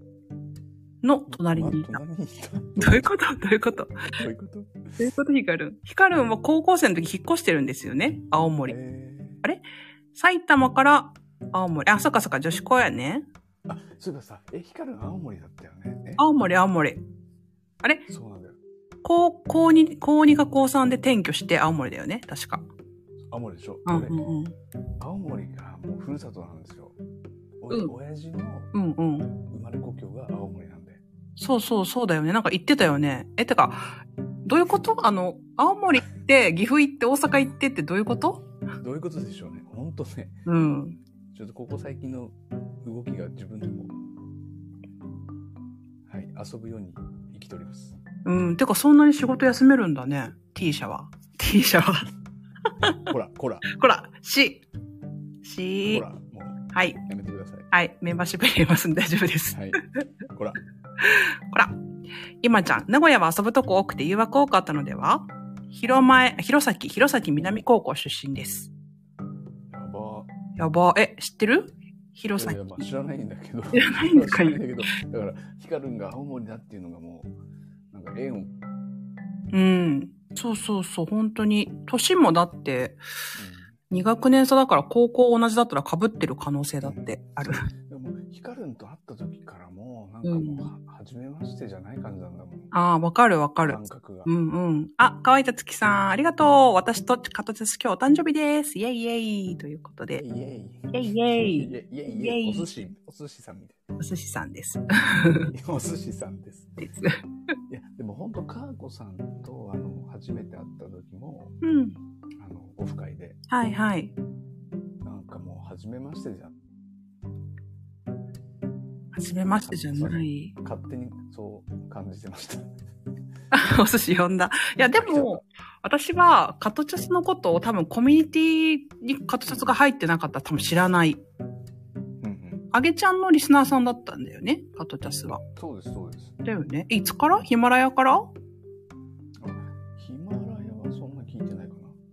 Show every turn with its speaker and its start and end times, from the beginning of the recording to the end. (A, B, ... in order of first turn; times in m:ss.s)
0:01.0-0:02.0 A
0:01.3-0:03.2 B
0:02.8-0:04.1 A
0:04.1-0:05.0 B
0:05.0-0:08.8 A
0:08.7-0:09.4 B
0:10.1-0:13.3 A
0:13.7-0:16.2 B
0:16.2-0:17.0 A
0:18.1-0:18.6 B
0:19.0-0:22.7 A
0:23.3-0:24.2 B
0:23.9-0:24.6 A
0:25.0-0:27.0 B
0:27.6-0:28.7 B
0:28.7-0:29.4 A
0:29.4-0:31.0 B
0:31.4-0:38.5 A
0:38.8-0:40.4 B
0:40.5-0:41.0 A
0:41.3-0:44.0 B
0:46.1-0:48.0 B
0:48.2-0:52.1 A
0:52.8-0:53.1 A
0:53.1-0:53.7 B
0:53.7-0:54.6 A
0:55.4-0:56.0 A
0:55.9-0:57.7 B
0:56.7-0:57.0 A
0:57.7-0:59.8 A
0:59.5-1:00.6 B
1:01.0-1:01.8 A
1:02.4-1:08.7 A
1:09.7-1:10.3 B
1:10.6-1:12.6 A
1:12.4-1:17.3 B
1:13.7-1:14.6 A
1:17.9-1:18.5 B
1:19.5-1:23.0 A
1:23.4-1:23.8 B
1:23.9-1:27.7 A
1:26.8-1:27.1 B
1:27.9-1:32.7 B
1:30.2-1:30.7 A
1:32.7-1:40.2 A
1:33.6-1:34.3 B
1:40.2-1:43.8 B
1:40.9-1:42.7 A
1:44.0-1:45.5 A
1:45.5-1:46.9 B
1:46.8-1:47.2 A
1:47.7-1:51.6 B
1:51.6-1:52.0 A
1:52.4-1:53.4 B
1:53.5-1:54.1 A
1:55.0-1:56.6 B
1:59.1-2:00.6 A
1:59.4-2:02.7 B
2:03.5-2:11.2 A
2:04.8-2:05.4 B
2:09.5-2:09.8 B
2:12.2-2:12.7 B
2:12.7-2:15.4 A
2:15.6-2:16.4 B
2:16.4-2:18.3 A
2:19.4-2:22.0 B